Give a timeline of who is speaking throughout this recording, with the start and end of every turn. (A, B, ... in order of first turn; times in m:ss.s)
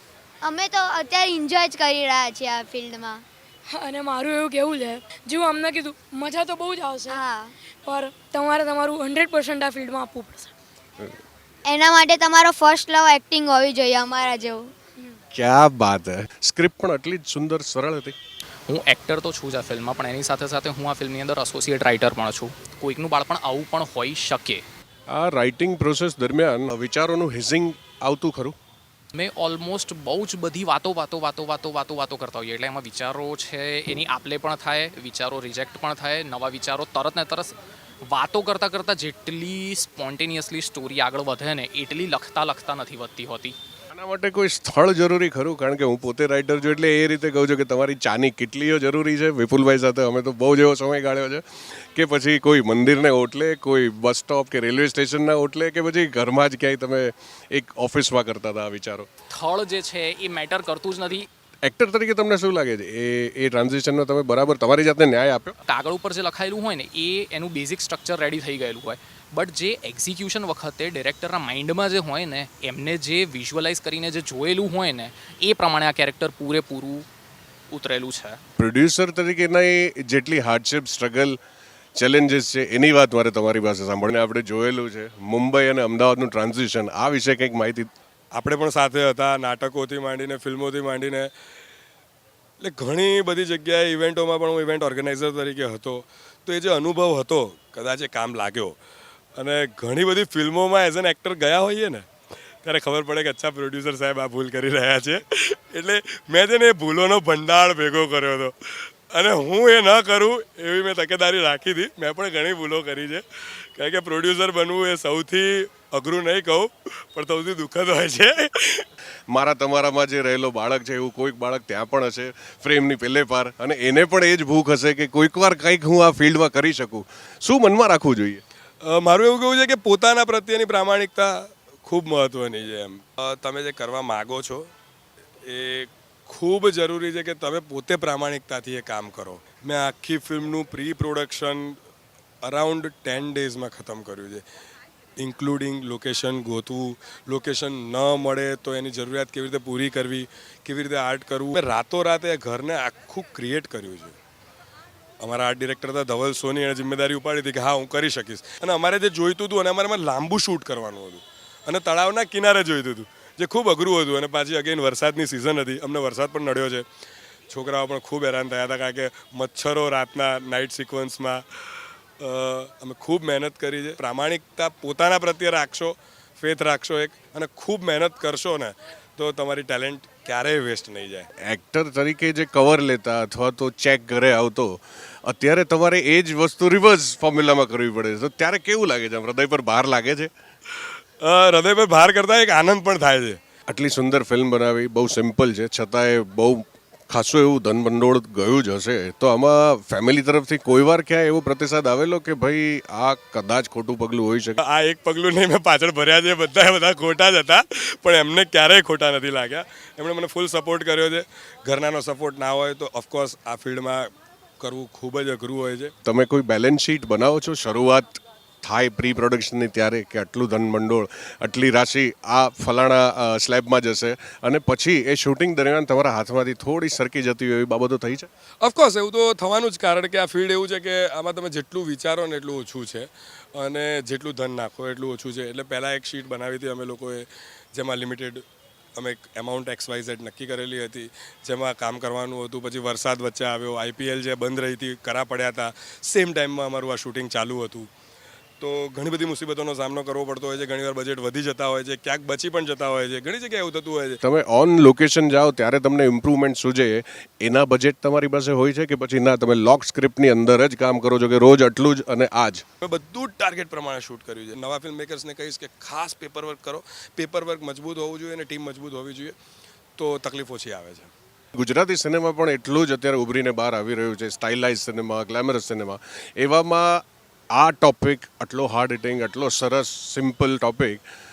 0:00.4-0:03.2 A
0:03.7-0:07.2 B
0:07.1-0:07.5 A
0:07.8-0:10.5 B
0:11.7-0:14.7 A
0:15.3-0:18.2 C
0:18.7-0:24.6 D
0:25.1-0:28.6 C
0:29.1-0:37.5 D
0:38.1-0:43.6 D
0:43.9-0:59.1 C
0:59.3-1:01.3 D
1:01.6-1:05.6 C
1:05.7-1:17.1 D
1:17.7-1:18.4 D
1:18.6-1:21.4 C
1:22.0-1:27.9 C
1:28.4-1:31.3 E
1:32.6-1:38.8 E
1:39.4-1:42.1 E
1:42.6-1:58.9 E
1:59.3-2:08.4 C
2:08.8-2:14.7 E
2:15.4-2:21.8 E
2:22.4-2:24.4 E
2:25.2-2:34.2 E
2:35.2-2:46.8 E
2:47.5-3:01.3 E
3:01.4-3:10.3 C
3:11.2-3:13.4 E
3:13.7-3:24.6 C
3:24.6-3:35.9 E
3:36.0-3:48.3 C
3:48.6-3:58.4 E
3:59.0-4:07.9 E
4:08.6-4:14.2 E
4:14.2-4:22.6 C
4:22.8-4:29.4 E
4:30.0-4:31.1 E
4:31.6-4:41.0 C